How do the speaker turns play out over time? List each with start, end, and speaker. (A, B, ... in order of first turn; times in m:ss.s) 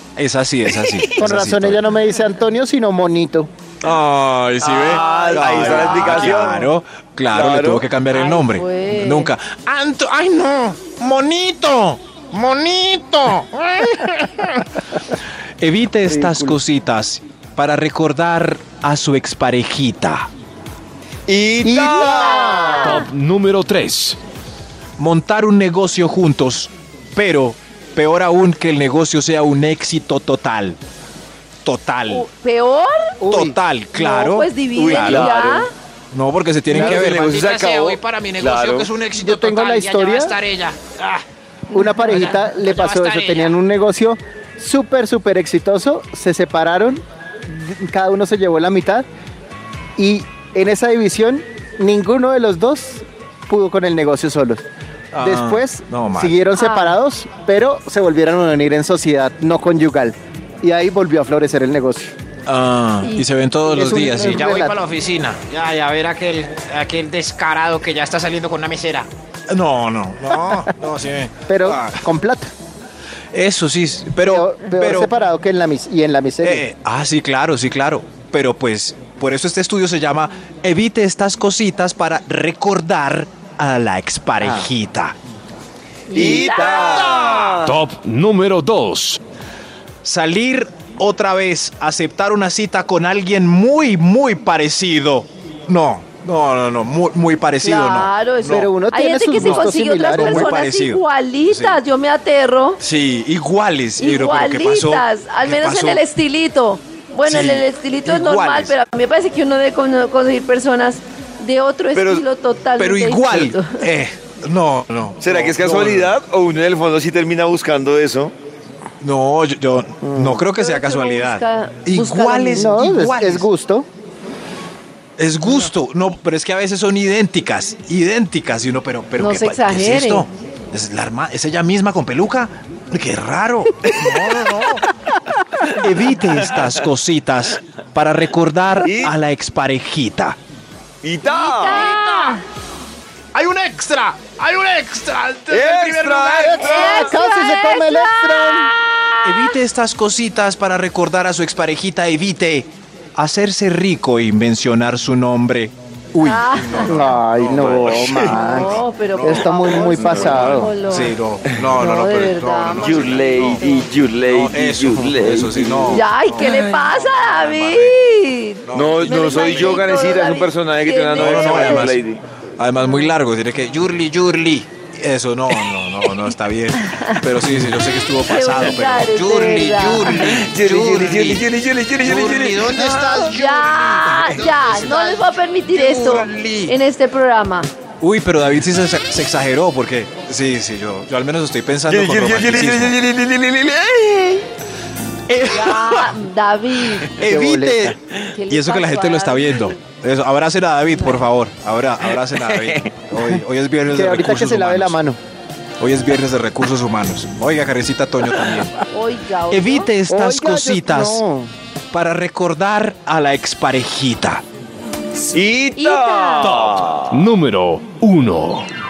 0:00.2-0:01.8 A
0:00.8-0:01.2 B
0:01.2-0:03.5 C
0:03.8-0:09.5 A
0:04.6-0:06.7 B
0:05.1-0:05.6 D
0:07.3-0:07.9 B
0:08.1-0:09.3 D
0:09.7-0:14.7 E
0:15.6-0:20.3 A
0:16.0-0:16.6 C
0:21.3-0:23.0 B
0:21.6-0:23.0 C
0:22.0-0:23.1 D
0:22.7-0:24.2 F
0:25.0-0:30.8 A
0:31.6-0:32.3 A
0:32.1-0:33.2 D
0:33.2-0:33.6 C
0:33.3-0:35.3 A
0:33.9-0:35.7 D
0:34.8-0:35.7 B
0:36.1-0:37.3 A
0:36.7-0:38.9 B
0:37.0-0:41.2 E
0:39.2-0:40.4 C
0:41.7-0:49.1 C
0:41.7-0:42.1 D
0:42.0-0:43.5 E
0:50.0-0:54.6 C
0:55.1-0:56.3 A
0:55.2-1:02.1 C
0:56.6-0:57.0 D
1:02.5-1:04.6 A
1:03.6-1:04.8 C
1:04.2-1:09.1 E
1:09.5-1:12.0 A
1:11.5-1:12.5 C
1:13.3-1:15.1 A
1:14.2-1:16.6 C
1:16.4-1:25.2 A
1:26.1-1:27.1 D
1:26.1-1:27.7 B
1:26.2-1:27.5 A
1:26.6-1:27.6 E
1:27.6-1:29.2 F
1:30.0-1:38.7 A
1:37.6-1:42.8 D
1:38.4-1:40.5 C
1:39.4-1:41.8 A
1:42.8-1:46.0 A
1:44.0-1:53.8 D
1:47.3-1:48.8 A
1:52.0-1:52.2 B
1:52.8-1:56.2 A
1:55.2-1:58.3 B
1:59.0-2:03.5 A
2:00.0-2:00.4 C
2:00.5-2:02.7 D
2:02.6-2:03.9 C
2:05.2-2:14.9 A
2:09.2-2:10.3 D
2:13.9-2:14.3 B
2:15.7-2:20.4 A
2:16.3-2:16.8 B
2:18.8-2:19.2 B
2:21.0-2:21.9 B
2:21.3-2:22.4 E
2:21.3-2:22.4 D
2:23.3-2:27.1 E
2:25.5-2:27.0 B
2:26.6-2:28.7 D
2:26.6-2:28.7 C
2:29.2-2:43.6 A
2:36.2-2:37.1 D
2:36.8-2:40.7 C
2:38.3-2:41.2 D
2:40.0-2:40.7 B
2:41.7-2:43.9 D
2:42.8-2:46.0 B
2:44.3-2:48.0 A
2:45.9-2:51.9 D
2:48.6-2:50.2 A
2:48.7-2:52.2 B
2:51.2-2:52.0 A
2:52.6-3:01.5 A
2:56.9-2:57.2 D
2:58.2-3:00.4 D
3:00.1-3:03.1 B
3:02.0-3:06.7 E
3:02.1-3:03.0 A
3:03.2-3:07.7 D
3:04.2-3:04.5 A
3:08.0-3:13.0 A
3:11.9-3:14.5 B
3:15.3-3:16.1 A
3:15.5-3:17.1 D
3:17.1-3:18.0 A
3:17.2-3:18.0 C
3:18.3-3:19.8 D
3:18.5-3:25.0 A
3:20.9-3:21.3 D
3:22.1-3:22.9 B
3:23.9-3:25.2 C
3:25.8-3:28.7 A
3:28.9-3:29.9 D
3:29.5-3:31.2 A
3:30.1-3:31.5 C
3:31.9-3:34.4 A
3:35.3-3:37.3 B
3:35.8-3:36.5 D
3:36.4-3:38.7 F